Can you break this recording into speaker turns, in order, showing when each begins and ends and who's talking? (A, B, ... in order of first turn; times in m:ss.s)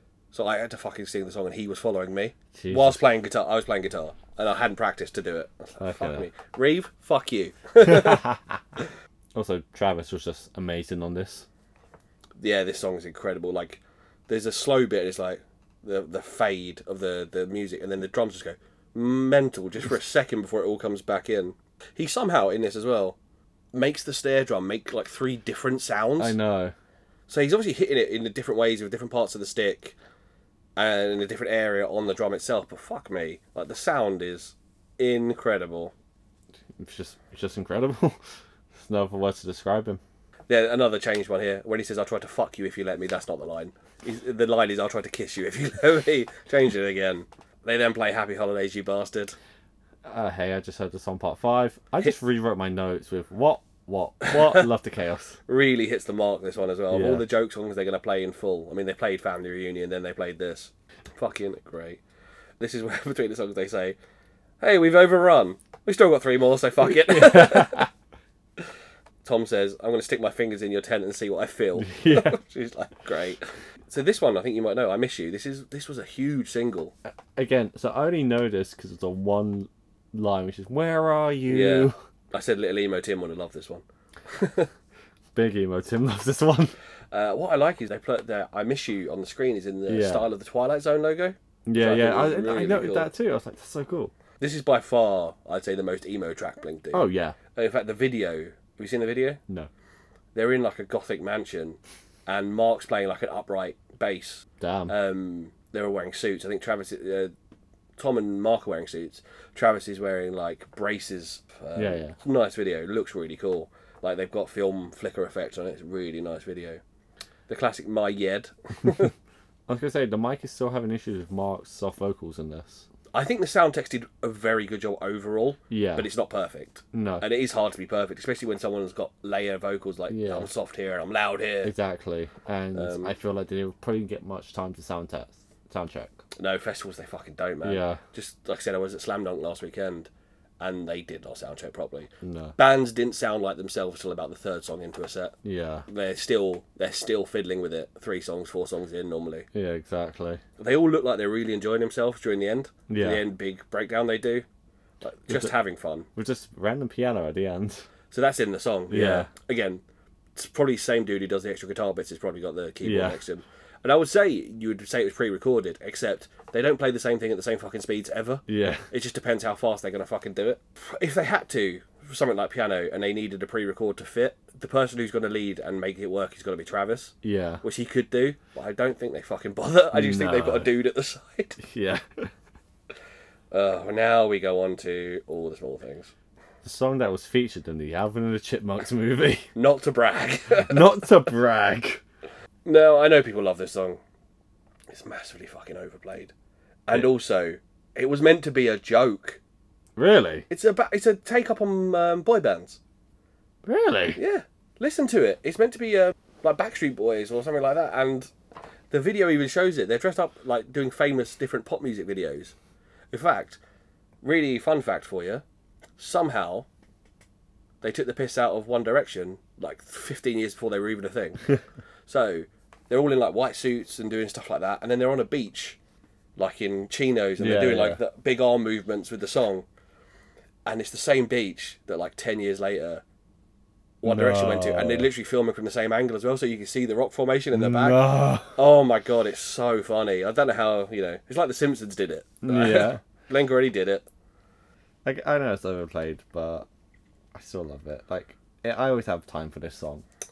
0:00.3-0:08.3 A
0:02.6-0:03.0 B
0:05.8-0:06.3 B
0:07.8-0:08.6 B
0:09.3-0:11.4 B
0:12.4-0:23.2 A
0:23.7-0:26.4 A
0:26.2-0:26.7 B
0:27.3-0:29.9 A
0:30.8-0:35.9 A
0:36.8-0:38.2 B
0:38.7-0:40.0 B
0:40.5-0:49.4 A
0:50.0-0:55.4 B
0:55.5-1:02.0 A
0:56.9-0:57.2 B
1:02.6-1:04.0 A
1:04.6-1:07.9 A
1:07.0-1:07.9 B
1:09.2-1:16.9 A
1:11.8-1:12.4 B
1:17.4-1:22.0 B
1:21.5-1:24.7 A
1:25.3-1:26.7 B
1:27.1-1:33.1 A
1:29.9-1:30.3 B
1:31.6-1:34.1 B
1:34.4-1:39.4 A
1:36.9-1:37.4 B
1:40.3-1:47.3 A
1:44.6-1:44.9 B
1:48.0-1:56.8 A
1:51.8-1:52.1 B
1:57.5-1:59.1 A
1:59.7-2:02.8 B
2:03.1-2:11.7 A
2:05.7-2:06.1 B
2:06.9-2:07.2 B
2:10.1-2:10.5 B
2:11.6-2:16.2 B
2:12.7-2:13.1 A
2:16.4-2:20.1 A
2:17.6-2:18.0 B
2:20.6-2:25.4 A
2:22.2-2:22.6 B
2:25.4-2:25.8 B
2:25.9-2:29.5 A
2:29.5-2:30.4 B
2:30.6-2:34.4 A
2:32.9-2:33.2 B
2:35.0-2:36.1 A
2:36.2-2:37.8 B
2:38.1-2:39.8 A
2:38.9-2:39.3 B
2:40.4-3:01.6 A
2:42.8-2:43.2 B
2:48.5-2:48.9 B
2:57.2-2:57.6 B
2:59.9-3:00.7 B
3:01.6-3:02.3 B
3:03.5-3:06.1 A
3:06.6-3:09.5 B
3:09.6-3:11.0 A
3:10.6-3:12.0 B
3:12.6-3:14.0 A
3:14.9-3:16.3 A
3:16.9-3:19.4 A
3:20.0-3:20.4 B
3:20.5-3:22.8 A
3:23.6-3:24.2 B
3:24.2-3:28.3 A
3:28.9-3:32.6 A
3:33.1-3:33.6 A
3:34.2-3:35.4 A
3:36.0-3:36.7 A
3:37.8-3:41.4 A
3:42.1-3:45.8 A
3:46.4-3:49.6 A
3:47.4-3:48.0 B
3:50.6-3:53.0 A
3:54.0-4:04.0 A
3:54.0-3:55.1 B
3:57.5-3:58.6 B
4:02.4-4:03.0 B
4:05.0-4:06.7 B
4:07.3-4:10.0 B